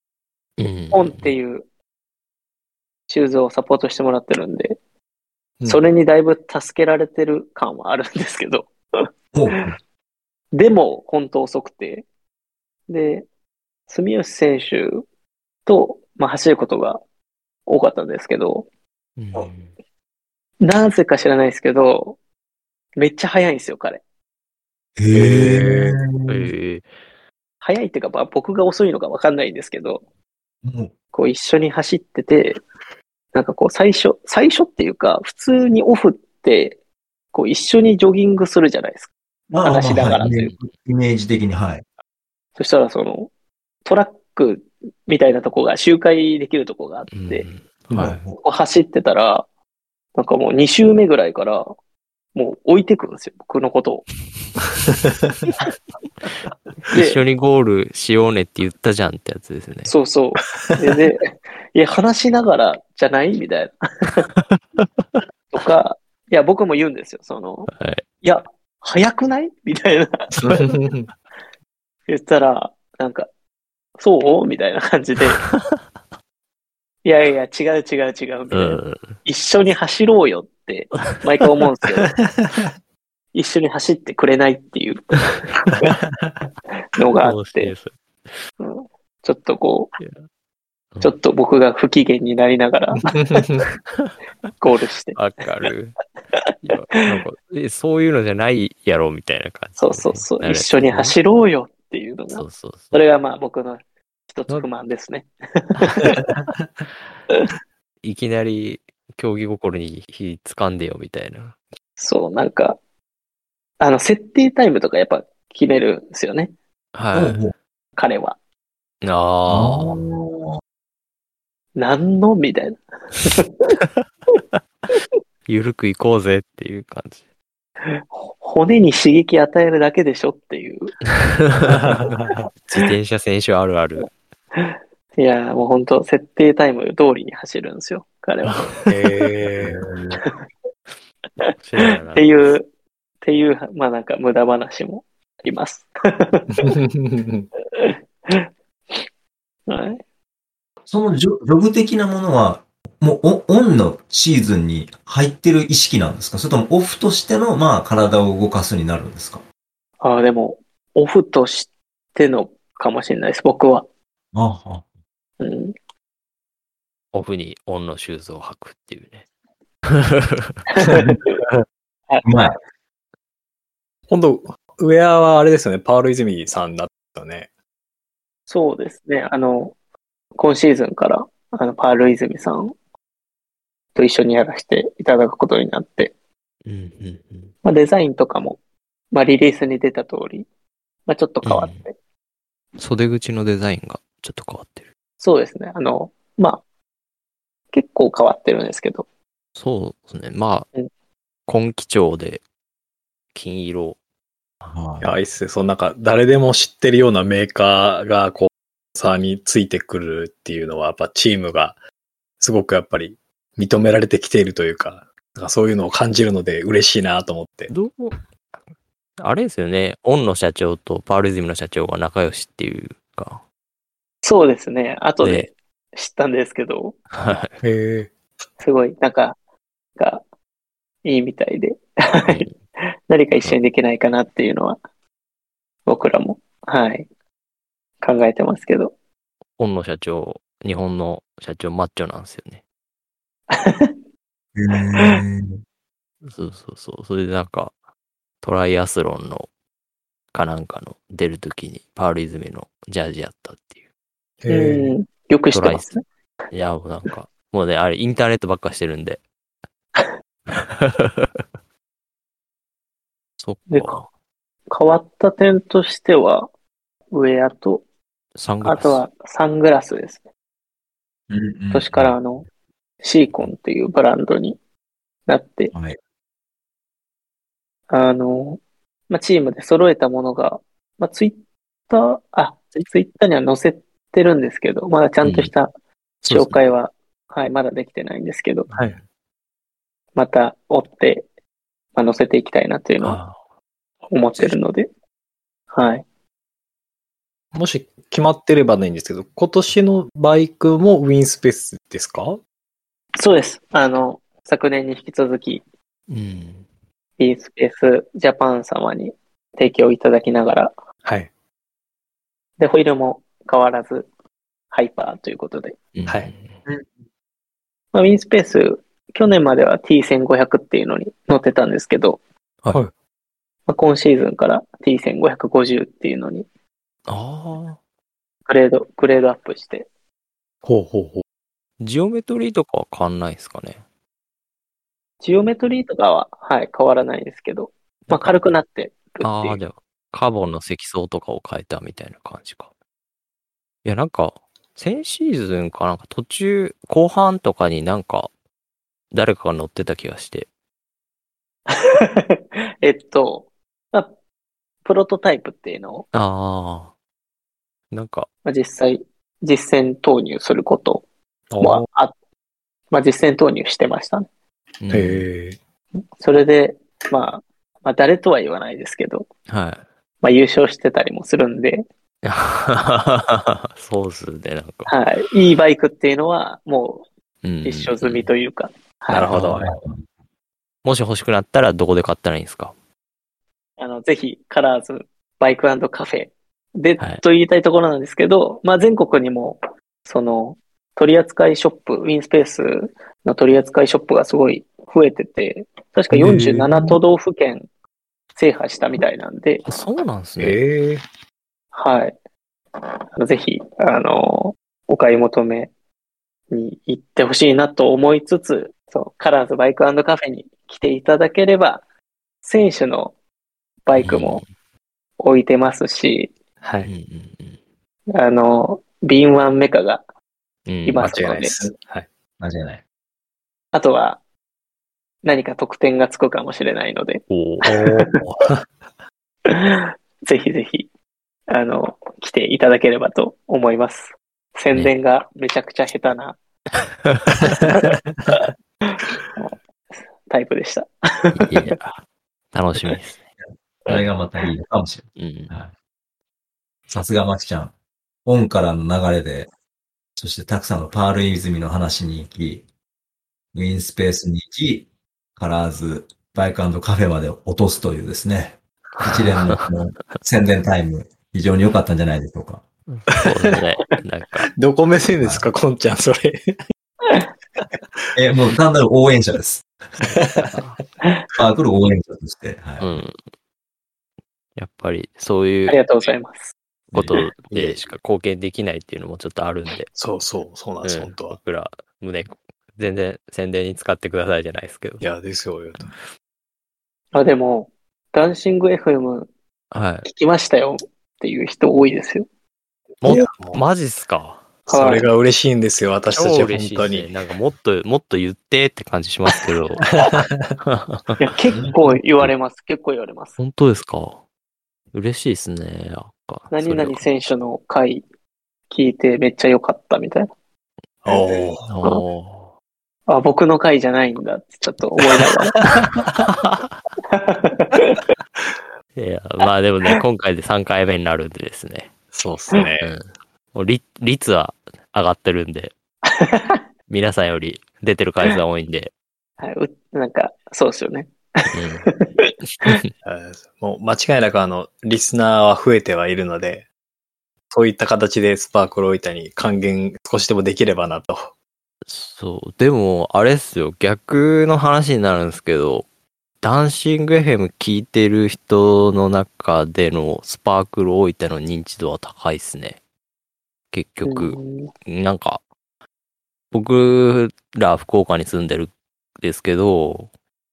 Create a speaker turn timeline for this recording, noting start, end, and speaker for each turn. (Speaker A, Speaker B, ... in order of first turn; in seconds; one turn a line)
Speaker A: 0.6-1.3
Speaker B: 0.9-1.6
Speaker B: 3.1-4.8
Speaker B: 5.7-8.7
Speaker C: 9.3-9.8
Speaker B: 10.5-12.1
Speaker B: 12.9-13.2
Speaker B: 13.9-15.0
Speaker B: 15.7-17.0
Speaker B: 17.7-18.6
Speaker A: 19.2-19.7
Speaker B: 20.6-22.2
Speaker B: 22.9-24.0
Speaker C: 25.0-26.5
Speaker D: 25.1-26.0
Speaker A: 26.3-26.9
Speaker B: 27.6-30.0
Speaker C: 30.6-30.9
Speaker B: 31.1-32.6
Speaker B: 33.3-36.8
Speaker B: 37.3-39.1
Speaker C: 39.5-41.8
Speaker B: 39.6-40.5
Speaker B: 42.6-43.3
Speaker B: 43.8-47.5
Speaker A: 47.1-48.2
Speaker C: 47.9-48.4
Speaker B: 48.4-49.4
Speaker B: 50.1-51.7
Speaker B: 52.3-54.1
Speaker A: 56.9-59.9
Speaker B: 56.9-57.2
Speaker B: 59.9-64.3
Speaker A: 64.3-65.2
Speaker B: 65.5-67.7
Speaker A: 67.7-68.0
Speaker B: 68.2-70.7
Speaker D: 70.5-71.1
Speaker B: 72.1-73.3
Speaker B: 74.0-75.4
Speaker A: 75.5-75.8
Speaker B: 77.0-82.2
Speaker A: 78.5-79.2
Speaker B: 83.3-85.2
Speaker B: 86.9-87.7
Speaker A: 87.2-87.9
Speaker B: 88.6-90.0
Speaker B: 91.0-93.4
Speaker D: 93.1-93.6
Speaker A: 93.9-94.1
Speaker B: 94.6-95.2
Speaker A: 95.1-96.0
Speaker A: 96.6-101.2
Speaker B: 99.8-106.3
Speaker A: 102.3-103.0
Speaker A: 105.8-106.1
Speaker A: 108.0-111.5
Speaker B: 112.0-112.8
Speaker B: 113.8-116.5
Speaker A: 116.9-117.4
Speaker C: 117.1-117.5
Speaker B: 118.0-118.3
Speaker A: 119.0-120.0
Speaker C: 119.5-120.6
Speaker B: 121.8-123.8
Speaker A: 125.5-127.2
Speaker B: 127.8-131.0
Speaker A: 131.2-132.0
Speaker D: 131.7-132.4
Speaker A: 132.7-134.1
Speaker B: 134.5-138.8
Speaker D: 138.9-139.8
Speaker C: 139.6-140.2
Speaker A: 141.6-142.3
Speaker B: 141.8-142.7
Speaker B: 143.2-146.7
Speaker D: 146.5-147.5
Speaker B: 147.7-148.5
Speaker B: 149.7-150.0
Speaker C: 150.9-159.4
Speaker B: 160.0-163.8
Speaker C: 164.3-164.8
Speaker B: 165.4-165.7
Speaker A: 167.1-169.2
Speaker A: 169.9-170.6
Speaker B: 170.7-171.4
Speaker C: 170.9-171.2
Speaker C: 172.2-172.6
Speaker D: 174.1-177.5
Speaker B: 178.5-179.7
Speaker B: 180.3-182.7
Speaker B: 183.9-186.1
Speaker A: 186.6-187.5
Speaker B: 187.6-188.6
Speaker B: 189.1-190.5
Speaker B: 191.1-191.9
Speaker A: 191.4-191.8
Speaker A: 192.8-194.8
Speaker B: 195.2-196.6
Speaker B: 197.7-199.1
Speaker A: 199.6-200.7
Speaker A: 201.5-202.4
Speaker A: 203.3-204.0
Speaker C: 204.6-205.1
Speaker D: 205.0-211.8
Speaker D: 212.4-217.7
Speaker A: 217.7-218.2
Speaker A: 219.2-223.4
Speaker B: 224.2-227.0
Speaker A: 225.2-225.5
Speaker A: 227.1-227.6
Speaker D: 227.6-228.1
Speaker B: 228.6-229.3
Speaker B: 230.0-230.2
Speaker B: 231.0-232.4
Speaker A: 232.2-232.5
Speaker B: 233.1-234.8
Speaker B: 235.8-237.1
Speaker B: 238.0-238.9
Speaker A: 239.6-242.6
Speaker B: 243.5-243.9
Speaker C: 244.5-245.6
Speaker B: 244.9-245.2
Speaker A: 246.2-247.7
Speaker A: 248.4-249.5
Speaker A: 250.3-253.8
Speaker D: 254.4-254.9
Speaker B: 254.5-256.0
Speaker A: 255.5-255.9
Speaker A: 256.5-259.2
Speaker A: 260.5-261.4
Speaker A: 263.4-264.1
Speaker B: 263.7-264.0
Speaker B: 264.7-266.5
Speaker B: 267.1-267.8
Speaker A: 268.4-269.0
Speaker B: 268.6-270.2
Speaker C: 271.3-272.1
Speaker B: 271.7-272.4
Speaker B: 273.0-274.6
Speaker B: 275.3-275.7
Speaker B: 277.9-281.4
Speaker B: 281.9-285.7
Speaker A: 285.2-285.5
Speaker A: 286.2-286.6
Speaker B: 286.2-288.7
Speaker A: 288.7-289.0
Speaker B: 290.1-291.2
Speaker B: 291.9-293.2
Speaker A: 293.0-293.4
Speaker B: 294.1-294.9
Speaker B: 295.7-296.0
Speaker D: 297.5-302.4
Speaker B: 303.2-305.6
Speaker A: 306.1-306.6
Speaker B: 307.2-310.7
Speaker D: 311.0-311.3
Speaker B: 312.6-314.1
Speaker B: 314.7-315.8
Speaker A: 315.9-316.6
Speaker B: 317.9-322.2
Speaker B: 323.7-326.4
Speaker A: 327.1-327.8
Speaker B: 328.5-329.9
Speaker D: 330.6-331.2
Speaker A: 331.8-333.8
Speaker B: 335.2-339.6
Speaker A: 339.2-342.7
Speaker A: 343.8-348.3
Speaker A: 349.1-350.5
Speaker B: 351.7-354.1
Speaker B: 354.8-356.1
Speaker A: 356.1-356.9
Speaker A: 357.9-358.3
Speaker B: 358.4-361.0
Speaker D: 361.5-361.9
Speaker B: 361.6-362.1
Speaker B: 362.9-364.2
Speaker A: 364.8-365.2
Speaker D: 364.9-365.6
Speaker B: 366.2-369.3
Speaker A: 369.5-369.8
Speaker B: 370.2-371.8
Speaker A: 372.2-374.9
Speaker B: 374.9-377.0
Speaker A: 377.4-378.3
Speaker B: 377.6-379.3
Speaker D: 379.1-379.7
Speaker A: 379.1-379.7
Speaker C: 379.6-380.0
Speaker A: 380.8-382.7
Speaker B: 383.8-397.6
Speaker D: 396.1-397.0
Speaker B: 398.3-399.6
Speaker A: 399.6-400.6
Speaker D: 400.4-401.0
Speaker B: 401.7-402.1
Speaker B: 402.8-405.7
Speaker B: 406.5-411.8
Speaker B: 412.4-413.1
Speaker B: 413.9-414.4
Speaker A: 413.9-414.4
Speaker B: 415.2-416.3
Speaker D: 416.6-416.9
Speaker A: 416.8-417.6
Speaker B: 418.1-420.0
Speaker A: 420.7-421.1
Speaker B: 420.9-421.6
Speaker D: 421.0-422.1
Speaker C: 422.4-422.8
Speaker B: 423.7-424.2
Speaker B: 425.2-428.0
Speaker A: 427.3-427.7
Speaker D: 427.6-428.6
Speaker B: 429.4-430.9
Speaker B: 431.5-436.4
Speaker B: 437.4-437.8
Speaker B: 438.4-439.5
Speaker B: 440.2-441.7
Speaker A: 441.3-442.0
Speaker A: 442.5-443.2
Speaker C: 443.9-445.7
Speaker A: 445.2-445.5
Speaker C: 446.9-447.7
Speaker C: 448.2-449.5
Speaker C: 450.2-452.6
Speaker C: 453.5-454.9
Speaker C: 455.4-462.6
Speaker A: 459.0-459.6
Speaker A: 462.9-464.5
Speaker D: 464.6-466.6
Speaker C: 468.1-469.6
Speaker A: 470.0-470.8
Speaker D: 470.2-470.6
Speaker C: 471.3-472.9
Speaker A: 472.8-473.2
Speaker A: 474.6-475.8
Speaker B: 475.7-476.5
Speaker C: 476.9-477.6
Speaker A: 476.9-479.9
Speaker D: 479.9-481.4
Speaker A: 480.8-485.0
Speaker D: 485.0-485.9
Speaker B: 487.1-489.3
Speaker A: 489.7-490.1
Speaker B: 490.0-492.2
Speaker A: 493.0-494.6
Speaker D: 493.0-493.6
Speaker D: 494.7-497.1
Speaker B: 494.7-495.1
Speaker A: 496.1-499.9
Speaker D: 500.0-500.5
Speaker A: 500.6-501.2
Speaker B: 501.2-503.4
Speaker C: 501.5-501.8
Speaker A: 503.4-504.2
Speaker A: 504.9-507.0
Speaker B: 506.5-508.0
Speaker B: 508.7-510.3
Speaker D: 511.0-511.7
Speaker A: 511.6-512.5
Speaker B: 513.1-515.6
Speaker A: 516.2-516.7
Speaker B: 517.1-518.0
Speaker A: 519.0-521.9
Speaker D: 522.1-522.9
Speaker A: 522.8-525.7
Speaker B: 526.2-526.6
Speaker A: 526.9-528.9
Speaker B: 529.4-532.8
Speaker A: 531.5-531.9
Speaker A: 532.5-532.9
Speaker D: 533.0-536.6
Speaker D: 537.5-541.3
Speaker A: 541.8-545.9
Speaker A: 546.4-552.8
Speaker A: 553.7-555.4
Speaker B: 554.0-554.7
Speaker A: 556.5-560.1